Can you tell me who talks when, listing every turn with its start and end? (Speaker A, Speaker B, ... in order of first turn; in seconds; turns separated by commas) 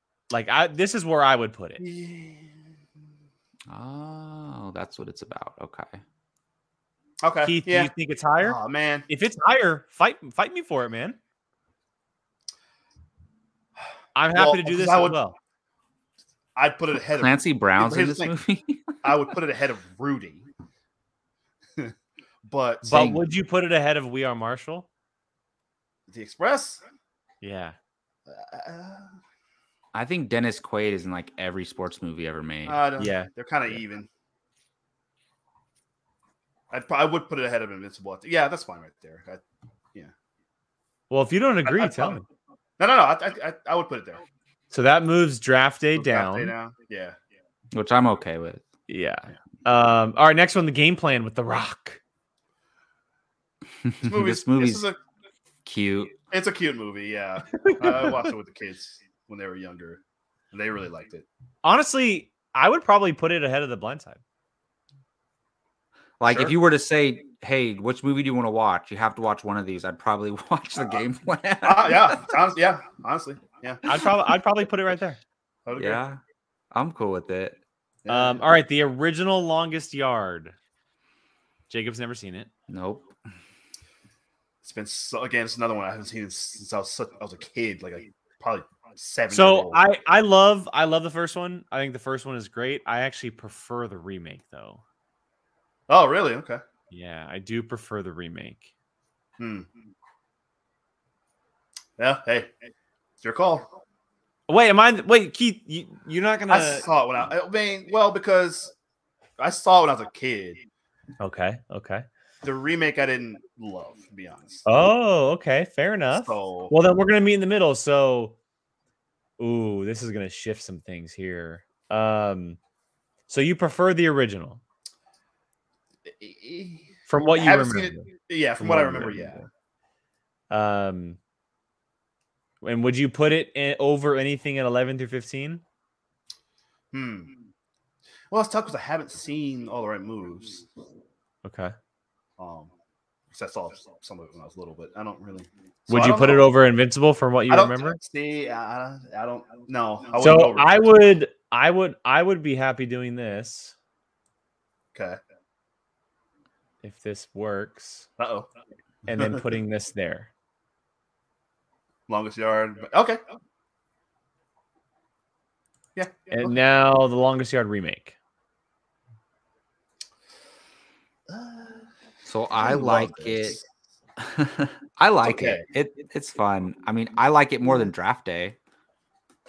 Speaker A: 0.3-1.8, Speaker B: 1.8-2.6, Speaker C: 3.7-6.0, Speaker B: 7.2-9.1, Speaker A: 7.4-11.2, Speaker A: 14.1-15.3, Speaker B: 14.3-15.2, Speaker B: 16.6-18.3, Speaker C: 17.1-19.1, Speaker B: 19.0-20.4, Speaker B: 22.4-23.0, Speaker A: 22.8-24.9, Speaker C: 22.9-23.2, Speaker B: 26.1-26.8, Speaker A: 27.4-27.8, Speaker B: 28.3-29.1, Speaker C: 29.9-32.8, Speaker B: 32.6-34.1, Speaker A: 33.0-33.8, Speaker B: 36.7-39.4, Speaker A: 41.1-42.2, Speaker B: 41.6-42.2, Speaker B: 42.8-44.2, Speaker A: 44.7-46.5, Speaker B: 46.0-47.1, Speaker C: 47.7-48.6, Speaker A: 48.9-52.0, Speaker C: 53.8-54.8, Speaker B: 54.0-55.0, Speaker C: 55.6-56.1, Speaker B: 56.3-60.0, Speaker A: 57.6-58.2, Speaker B: 60.5-61.2, Speaker A: 61.6-64.2, Speaker C: 66.2-72.3, Speaker B: 71.6-73.8, Speaker A: 73.8-75.2, Speaker B: 75.6-76.0, Speaker C: 75.8-76.2, Speaker C: 76.7-77.6, Speaker B: 78.0-78.4, Speaker A: 78.1-80.5, Speaker A: 81.7-82.5, Speaker C: 82.7-83.0, Speaker B: 84.6-89.8, Speaker A: 89.3-94.8, Speaker B: 95.9-96.6, Speaker A: 96.9-98.7, Speaker B: 99.4-99.7, Speaker B: 102.0-102.5, Speaker B: 103.2-103.7, Speaker A: 104.5-106.8, Speaker B: 106.5-108.7, Speaker B: 109.4-110.6, Speaker A: 111.2-112.0, Speaker B: 112.4-114.7, Speaker A: 114.7-118.3, Speaker B: 116.1-116.7, Speaker A: 119.4-122.6, Speaker A: 123.3-124.6, Speaker B: 126.2-129.4, Speaker A: 127.1-129.5, Speaker A: 130.5-131.2, Speaker A: 132.6-135.6, Speaker B: 136.9-137.3, Speaker B: 138.3-140.7, Speaker A: 141.4-141.7, Speaker B: 142.4-142.7, Speaker B: 143.3-146.5, Speaker A: 145.9-148.0, Speaker B: 147.5-150.8, Speaker A: 150.2-153.7, Speaker B: 154.9-155.2, Speaker A: 156.8-158.1, Speaker B: 158.2-158.5, Speaker A: 159.1-160.3, Speaker B: 159.1-159.4, Speaker B: 162.1-163.2, Speaker B: 165.9-166.6, Speaker A: 166.3-168.2, Speaker B: 171.3-171.8, Speaker C: 172.2-173.6, Speaker B: 172.6-173.7, Speaker C: 174.2-178.6, Speaker B: 175.2-175.6